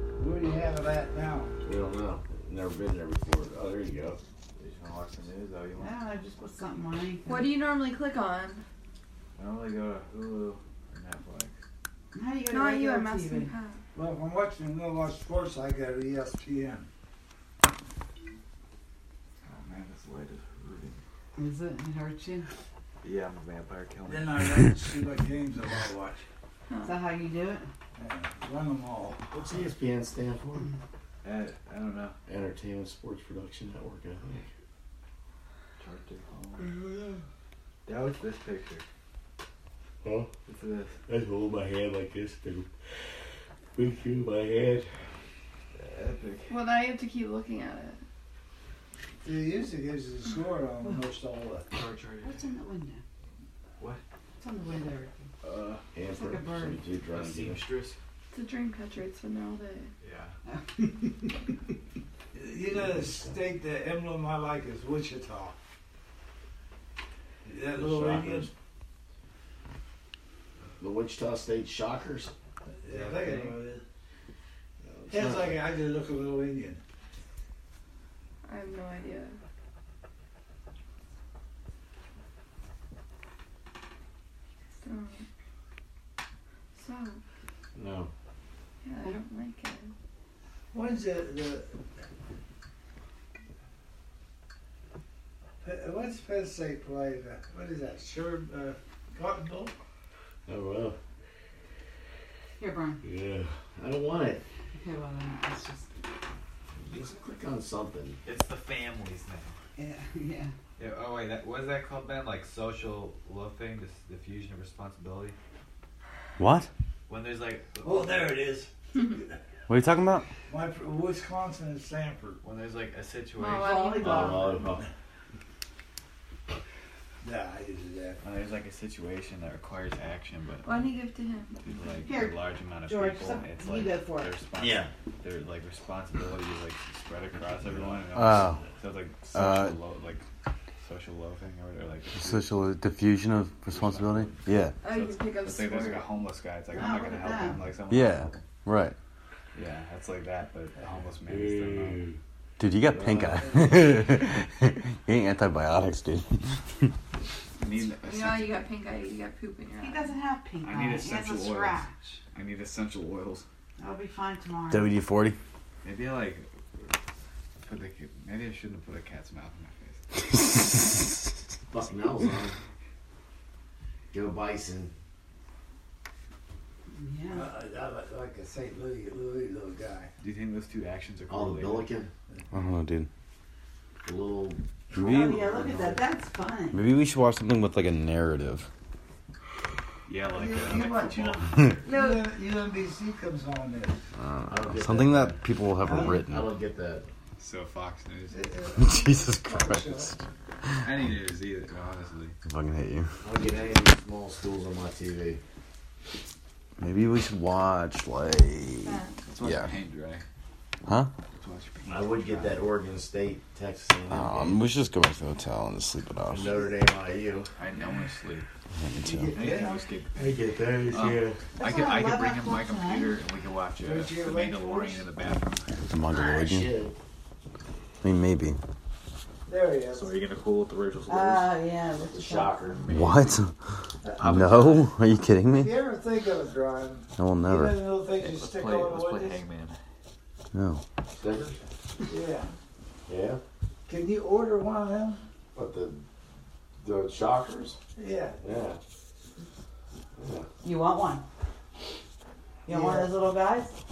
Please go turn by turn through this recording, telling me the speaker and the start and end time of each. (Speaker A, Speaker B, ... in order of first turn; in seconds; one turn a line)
Speaker A: 0.2-1.5
Speaker B: 1.6-4.2
Speaker C: 4.5-5.9
Speaker D: 5.8-7.5
Speaker E: 7.2-8.6
Speaker C: 9.4-11.5
Speaker D: 12.1-13.5
Speaker E: 12.5-13.8
Speaker A: 13.9-16.9
Speaker C: 19.4-21.0
Speaker D: 21.4-22.5
Speaker C: 23.0-24.4
Speaker A: 24.1-26.2
Speaker E: 26.7-26.9
Speaker D: 26.8-27.7
Speaker A: 28.0-29.2
Speaker B: 29.3-30.7
Speaker C: 31.2-32.1
Speaker B: 32.3-34.5
Speaker C: 35.8-36.7
Speaker C: 37.9-38.8
Speaker B: 40.0-40.3
Speaker C: 40.5-41.0
Speaker B: 41.1-42.7
Speaker B: 43.8-44.9
Speaker C: 45.7-46.6
Speaker E: 46.5-48.0
Speaker A: 49.2-51.8
Speaker C: 51.7-52.5
Speaker D: 52.2-53.0
Speaker D: 54.4-55.3
Speaker C: 55.4-55.8
Speaker B: 55.9-57.6
Speaker D: 56.1-56.8
Speaker C: 57.1-58.0
Speaker E: 58.3-59.9
Speaker C: 60.0-60.3
Speaker D: 60.5-61.3
Speaker A: 62.3-65.5
Speaker B: 62.7-63.3
Speaker A: 67.4-68.5
Speaker B: 67.7-68.5
Speaker B: 70.8-72.3
Speaker A: 72.8-73.8
Speaker C: 72.9-73.6
Speaker B: 74.8-75.6
Speaker A: 75.1-76.8
Speaker E: 78.4-79.4
Speaker E: 84.8-85.2
Speaker E: 86.7-87.2
Speaker B: 87.7-88.1
Speaker E: 88.8-89.9
Speaker A: 90.7-91.7
Speaker A: 95.6-99.7
Speaker B: 100.5-101.0
Speaker D: 102.6-103.0
Speaker B: 103.0-104.4
Speaker D: 104.8-105.9
Speaker B: 106.8-108.2
Speaker C: 108.2-109.5
Speaker D: 109.8-110.5
Speaker C: 110.8-115.3
Speaker F: 116.4-116.7
Speaker C: 117.1-118.4
Speaker A: 117.8-119.3
Speaker F: 119.7-120.2
Speaker A: 120.5-122.4
Speaker C: 122.4-123.7
Speaker E: 123.4-124.3
Speaker D: 123.5-124.6
Speaker B: 124.0-124.8
Speaker A: 127.2-128.2
Speaker C: 128.2-130.9
Speaker E: 130.6-131.6
Speaker C: 131.6-140.2
Speaker D: 132.0-134.3
Speaker B: 134.6-134.9
Speaker B: 137.6-138.0
Speaker F: 138.1-138.6
Speaker F: 139.3-139.8
Speaker C: 140.8-142.6
Speaker F: 142.1-144.8
Speaker C: 143.7-148.4
Speaker E: 144.8-146.2
Speaker D: 146.7-147.6
Speaker F: 147.9-148.9
Speaker C: 149.5-152.1
Speaker B: 151.3-152.1
Speaker F: 152.6-156.9
Speaker C: 152.9-153.8
Speaker C: 157.6-158.6
Speaker E: 157.6-160.1
Speaker D: 159.8-162.2
Speaker C: 160.6-161.8
Speaker C: 162.3-163.4
Speaker D: 163.8-164.9
Speaker F: 164.7-165.4
Speaker C: 165.8-166.5
Speaker C: 167.6-170.0
Speaker B: 171.7-172.6
Speaker B: 174.1-174.9
Speaker D: 176.9-177.5
Speaker A: 177.3-180.1
Speaker C: 180.2-181.9
Speaker B: 181.3-182.1
Speaker F: 182.5-183.1
Speaker B: 184.0-185.5
Speaker F: 184.9-185.5
Speaker D: 185.0-186.8
Speaker F: 186.7-188.7
Speaker C: 190.1-191.9
Speaker A: 190.3-194.0
Speaker F: 191.5-191.8
Speaker E: 191.8-192.3
Speaker F: 194.2-196.5
Speaker B: 194.5-195.4
Speaker A: 195.8-196.2
Speaker B: 196.0-197.0
Speaker C: 197.4-198.5
Speaker A: 198.3-200.2
Speaker F: 198.8-200.9
Speaker C: 200.8-202.3
Speaker F: 202.4-203.2
Speaker B: 203.2-205.4
Speaker F: 206.8-209.8
Speaker E: 208.8-209.2
Speaker C: 209.3-210.2
Speaker C: 211.3-212.6
Speaker B: 211.8-214.6
Speaker F: 214.1-216.6
Speaker B: 216.3-217.5
Speaker C: 217.6-218.4
Speaker F: 218.7-219.4
Speaker A: 219.0-219.8
Speaker C: 219.3-220.3
Speaker B: 220.1-221.4
Speaker C: 220.9-225.8
Speaker D: 221.6-223.2
Speaker A: 223.8-225.1
Speaker F: 225.9-226.7
Speaker B: 226.1-226.9
Speaker F: 228.0-228.6
Speaker A: 229.5-230.1
Speaker C: 229.9-231.5
Speaker D: 231.1-232.8
Speaker B: 232.1-232.9
Speaker C: 232.8-233.4
Speaker F: 232.9-233.5
Speaker A: 234.0-234.3
Speaker C: 234.1-234.9
Speaker F: 234.2-235.7
Speaker A: 235.5-239.4
Speaker F: 237.2-237.9
Speaker C: 238.1-239.8
Speaker F: 240.5-240.8
Speaker B: 241.1-241.6
Speaker A: 242.1-242.5
Speaker B: 243.1-243.4
Speaker A: 243.9-245.2
Speaker B: 245.5-246.0
Speaker B: 246.8-247.8
Speaker A: 247.9-248.4
Speaker B: 248.4-248.8
Speaker B: 250.2-250.5
Speaker D: 250.6-251.2
Speaker D: 252.7-253.8
Speaker A: 252.7-253.1